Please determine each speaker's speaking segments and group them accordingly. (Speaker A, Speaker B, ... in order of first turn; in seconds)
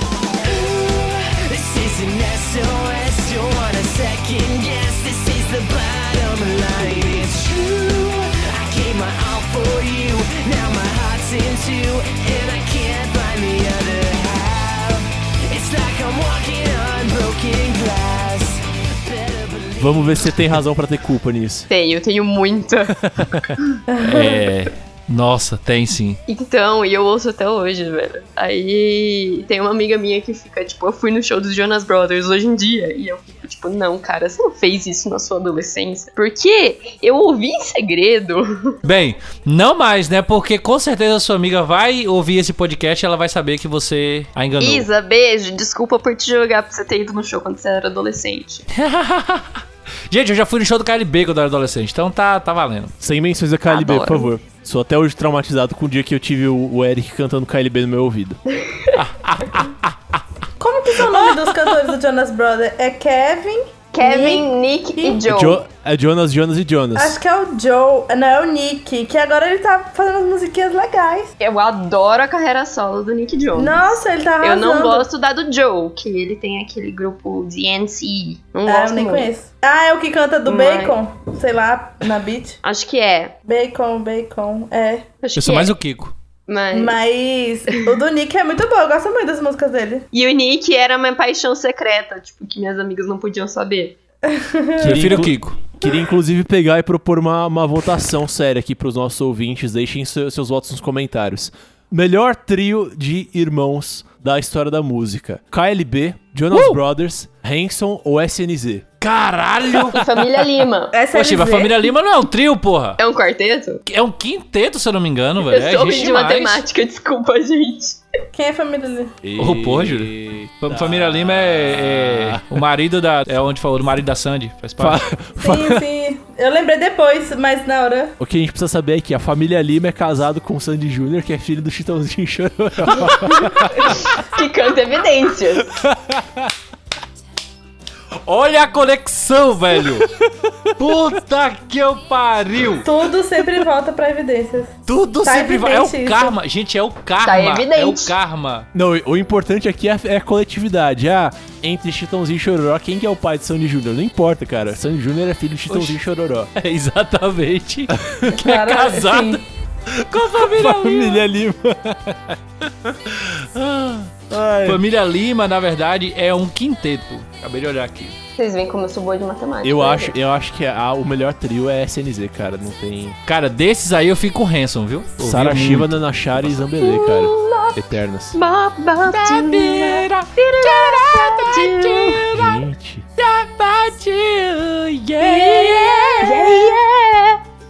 Speaker A: 0.5-20.3
Speaker B: 19.8-21.7, 23.1-23.6, 53.0-58.4, 65.2-67.2, 94.8-108.8, 119.2-122.7, 124.8-125.8, 128.2-134.0, 135.7-136.5, 140.0-140.3, 148.7-156.5, 157.9-158.4, 160.4-162.9, 164.3-164.8, 169.6-173.2, 175.2-178.4, 182.3-183.1
Speaker C: 21.7-22.9, 26.3-38.8, 44.6-48.7, 53.7-54.3, 58.5-58.9, 63.9-65.6, 71.4-79.3, 80.5-81.0, 82.6-83.3, 85.2-85.7, 86.5-87.0, 90.1-94.0, 109.7-110.9, 113.0-113.8, 115.4-118.0, 134.0-135.7, 147.2-148.1, 168.4-170.1, 176.8-177.8, 178.3-182.3, 185.2-187.4
Speaker D: 23.9-24.4, 60.6-65.2, 66.9-71.3, 73.5-75.1, 78.7-82.6, 83.5-85.0, 86.7-90.0, 94.3-95.3, 110.9-111.9, 118.3-119.1, 125.4-128.1, 142.8-146.3, 158.3-159.4
Speaker E: 24.0-26.2, 38.8-44.9, 48.7-52.9, 58.9-60.2, 61.0-61.7, 85.3-86.1, 94.8-95.6, 106.5-106.8, 109.0-110.0, 111.1-113.0, 113.8-116.6, 119.4-125.0, 132.9-133.9, 138.2-140.1, 140.8-142.9, 144.9-148.7, 155.7-156.0, 156.5-161.2, 163.1-164.1, 164.6-168.1, 173.3-176.5, 179.1-182.6, 183.2-186.6